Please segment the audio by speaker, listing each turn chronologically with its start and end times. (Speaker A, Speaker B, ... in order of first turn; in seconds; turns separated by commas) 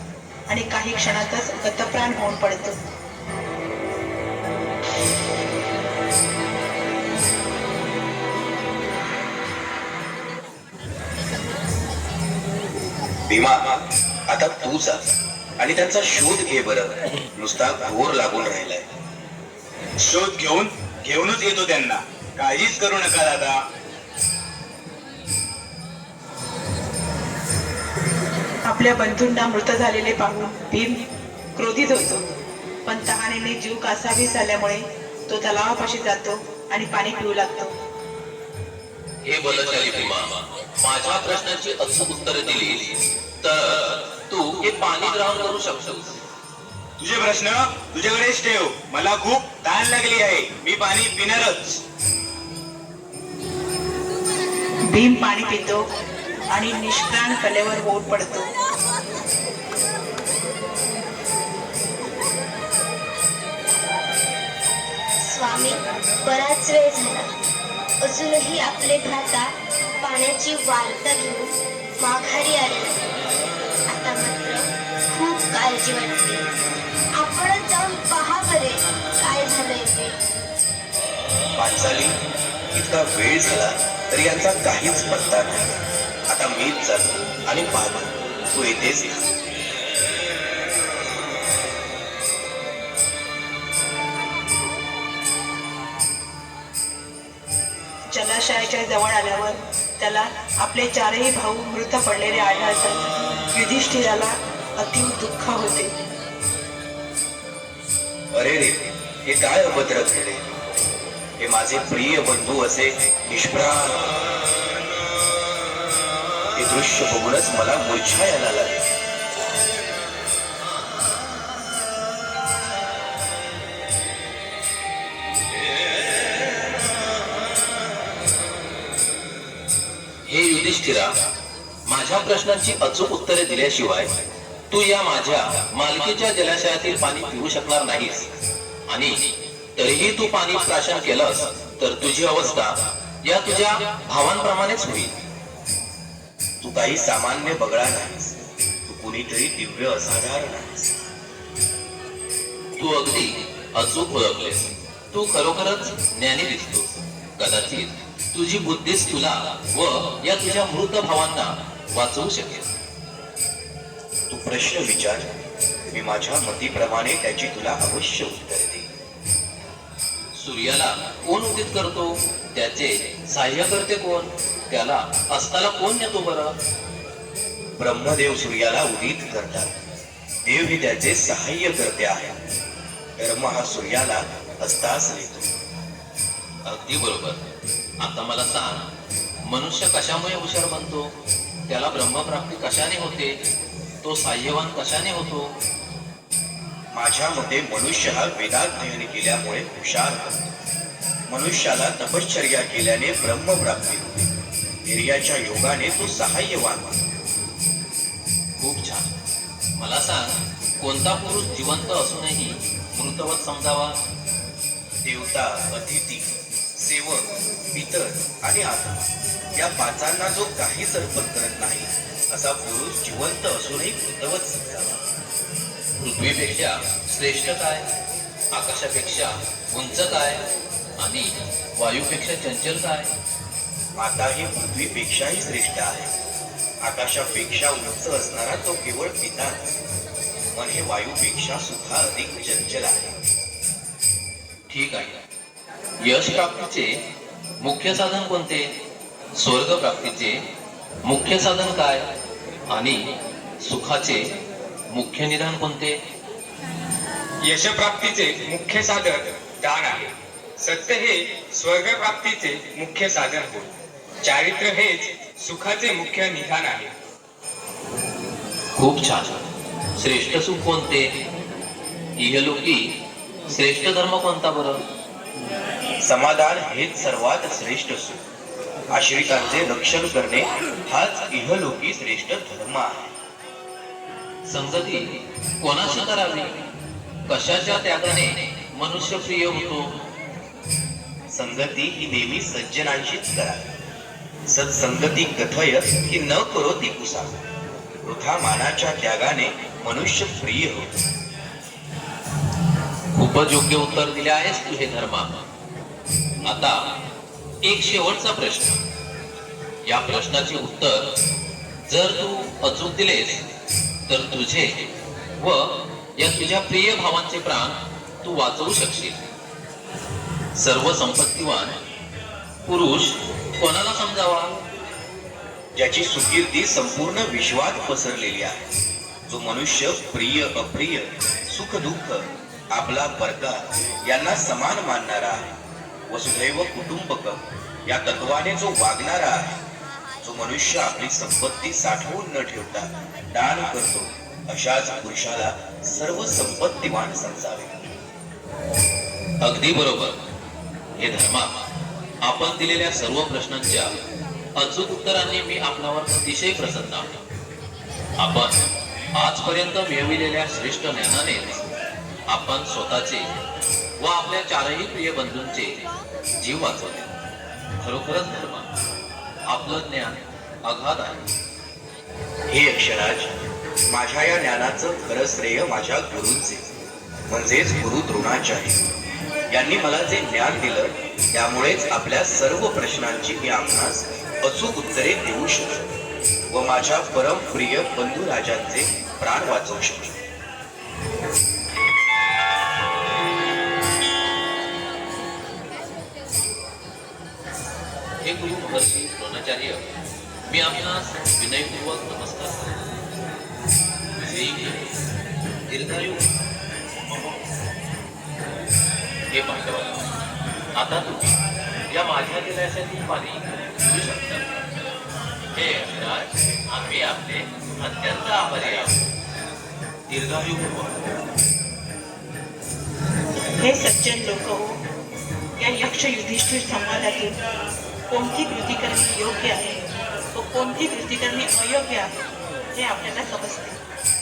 Speaker A: 0.5-2.8, Speaker B: 13.3-15.0, Speaker B: 15.6-18.9, Speaker C: 20.0-23.6, Speaker A: 28.6-31.0, Speaker A: 31.6-32.2, Speaker A: 32.8-37.7, Speaker D: 39.2-46.2, Speaker C: 47.0-51.8, Speaker A: 54.9-55.8, Speaker A: 56.5-58.5, Speaker E: 65.2-67.3, Speaker E: 68.0-73.0, Speaker E: 73.9-76.4, Speaker E: 77.1-80.2, Speaker B: 81.5-82.1, Speaker B: 82.7-85.7, Speaker B: 86.3-89.3, Speaker A: 98.1-105.9, Speaker B: 108.3-110.4, Speaker B: 111.4-114.2, Speaker B: 116.5-118.8, Speaker D: 130.3-131.1, Speaker D: 131.8-134.1, Speaker D: 134.7-138.3, Speaker D: 138.9-139.1, Speaker D: 139.8-145.1, Speaker B: 146.6-151.0, Speaker D: 152.8-162.7, Speaker B: 164.3-165.3, Speaker B: 165.9-168.9, Speaker D: 170.3-176.5, Speaker B: 177.8-179.7, Speaker B: 180.4-182.4, Speaker B: 183.2-185.5, Speaker D: 186.7-187.4, Speaker D: 188.0-188.9, Speaker D: 189.4-191.1, Speaker D: 191.7-193.4, Speaker D: 194.0-195.5, Speaker B: 196.9-200.4, Speaker B: 201.3-204.2, Speaker B: 204.8-207.1, Speaker D: 208.6-209.1, Speaker D: 209.8-214.0, Speaker B: 215.0-225.0, Speaker D: 226.0-227.8, Speaker D: 228.5-230.4, Speaker D: 231.0-233.1, Speaker B: 233.9-236.1, Speaker B: 236.8-239.7, Speaker B: 240.5-243.1, Speaker D: 244.7-245.2, Speaker D: 246.0-246.9, Speaker D: 247.6-248.7, Speaker D: 249.4-250.4, Speaker D: 251.1-252.1, Speaker D: 252.7-253.0, Speaker D: 253.6-254.2, Speaker D: 254.9-255.9, Speaker F: 257.4-260.1, Speaker F: 260.6-263.7, Speaker F: 264.2-266.9, Speaker D: 268.8-269.4, Speaker D: 270.0-271.1, Speaker D: 272.2-272.8, Speaker D: 273.5-274.8, Speaker B: 276.0-278.2, Speaker B: 278.9-283.1, Speaker D: 284.4-285.1, Speaker D: 285.6-286.5, Speaker D: 287.3-289.9, Speaker B: 291.3-293.7, Speaker B: 294.5-297.4, Speaker B: 298.0-300.9, Speaker D: 303.1-305.4, Speaker D: 306.4-306.7, Speaker D: 307.6-308.8, Speaker D: 309.8-311.1, Speaker D: 311.9-313.4, Speaker D: 314.1-314.8, Speaker D: 315.4-319.2, Speaker D: 320.6-321.8, Speaker D: 322.6-324.5, Speaker B: 325.7-328.7, Speaker B: 329.3-335.5, Speaker B: 336.1-339.6, Speaker B: 340.2-347.8, Speaker D: 349.4-350.2, Speaker D: 351.0-351.5, Speaker D: 352.2-353.9, Speaker D: 354.6-357.2, Speaker D: 358.2-358.6, Speaker D: 359.1-361.7, Speaker D: 362.3-363.3, Speaker D: 364.0-367.1, Speaker D: 367.8-368.7, Speaker D: 369.5-371.2, Speaker B: 372.5-373.3, Speaker B: 373.9-376.7, Speaker B: 377.3-378.8, Speaker B: 379.5-385.9, Speaker B: 386.5-390.2, Speaker D: 398.2-399.8, Speaker D: 400.5-402.7, Speaker D: 404.2-404.8, Speaker D: 405.7-406.3, Speaker D: 407.1-407.4, Speaker D: 409.3-410.1, Speaker D: 410.8-411.4, Speaker D: 411.9-414.6, Speaker D: 415.5-419.0, Speaker D: 420.1-420.9, Speaker A: 423.6-424.8, Speaker A: 425.6-427.4, Speaker A: 428.1-429.8, Speaker A: 430.3-432.1, Speaker A: 432.7-433.8